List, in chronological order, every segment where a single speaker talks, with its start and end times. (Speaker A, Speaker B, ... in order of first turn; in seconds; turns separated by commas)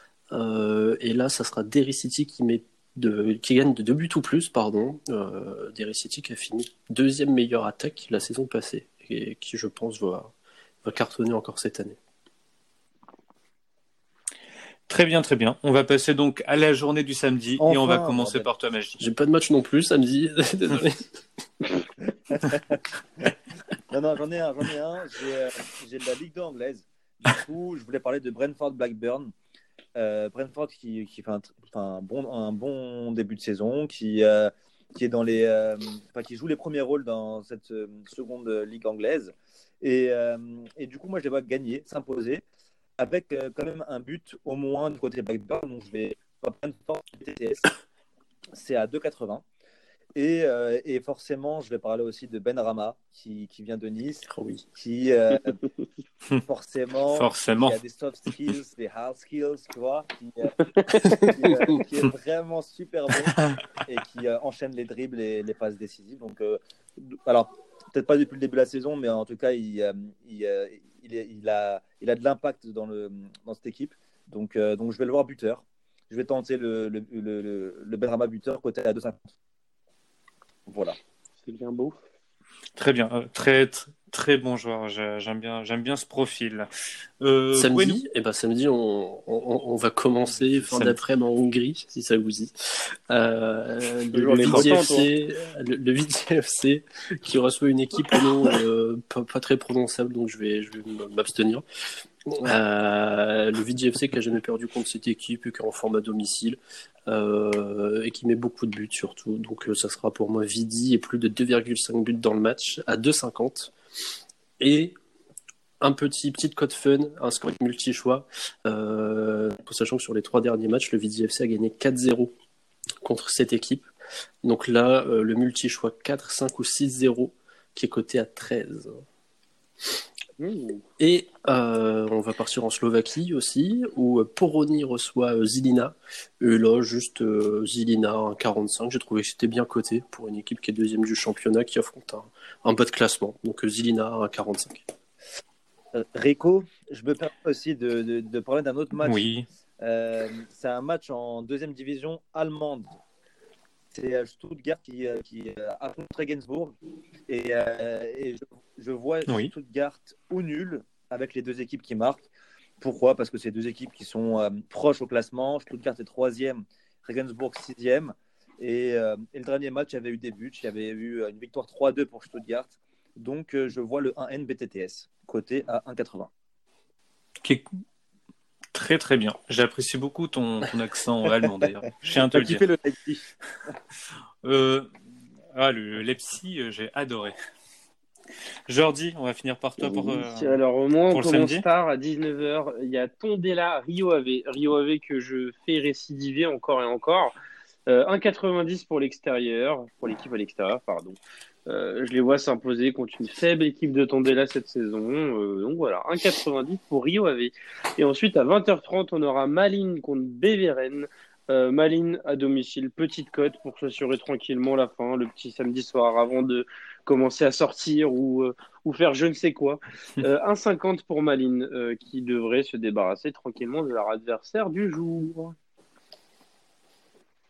Speaker A: 0.3-12.0, Speaker B: 14.9-19.0, Speaker C: 17.6-18.5, Speaker A: 19.0-21.1, Speaker C: 22.3-22.7, Speaker C: 23.9-29.3, Speaker C: 29.9-42.4, Speaker C: 43.0-47.7, Speaker C: 48.5-49.4, Speaker C: 50.1-55.6, Speaker A: 54.3-54.6, Speaker C: 56.4-60.5, Speaker B: 57.1-57.8, Speaker D: 60.8-61.3, Speaker C: 61.1-79.2, Speaker C: 80.7-81.0, Speaker D: 81.4-82.0, Speaker B: 82.8-86.7, Speaker B: 87.2-88.0, Speaker A: 87.5-101.6, Speaker B: 90.3-91.0, Speaker D: 94.1-95.1, Speaker B: 94.5-94.8, Speaker A: 102.3-113.7, Speaker A: 114.6-114.9, Speaker A: 115.8-122.3, Speaker A: 123.0-123.9, Speaker A: 124.4-129.0, Speaker D: 130.4-130.8, Speaker A: 131.0-144.8, Speaker C: 145.9-149.2, Speaker B: 149.0-149.4, Speaker C: 149.8-153.0, Speaker C: 153.9-156.7, Speaker C: 157.3-162.3, Speaker B: 159.3-159.5, Speaker C: 162.8-176.3, Speaker B: 178.7-182.6, Speaker C: 182.1-183.3, Speaker B: 184.4-184.9, Speaker B: 185.5-187.3, Speaker B: 188.7-190.6, Speaker D: 189.8-197.3, Speaker B: 191.1-191.6, Speaker D: 197.9-225.5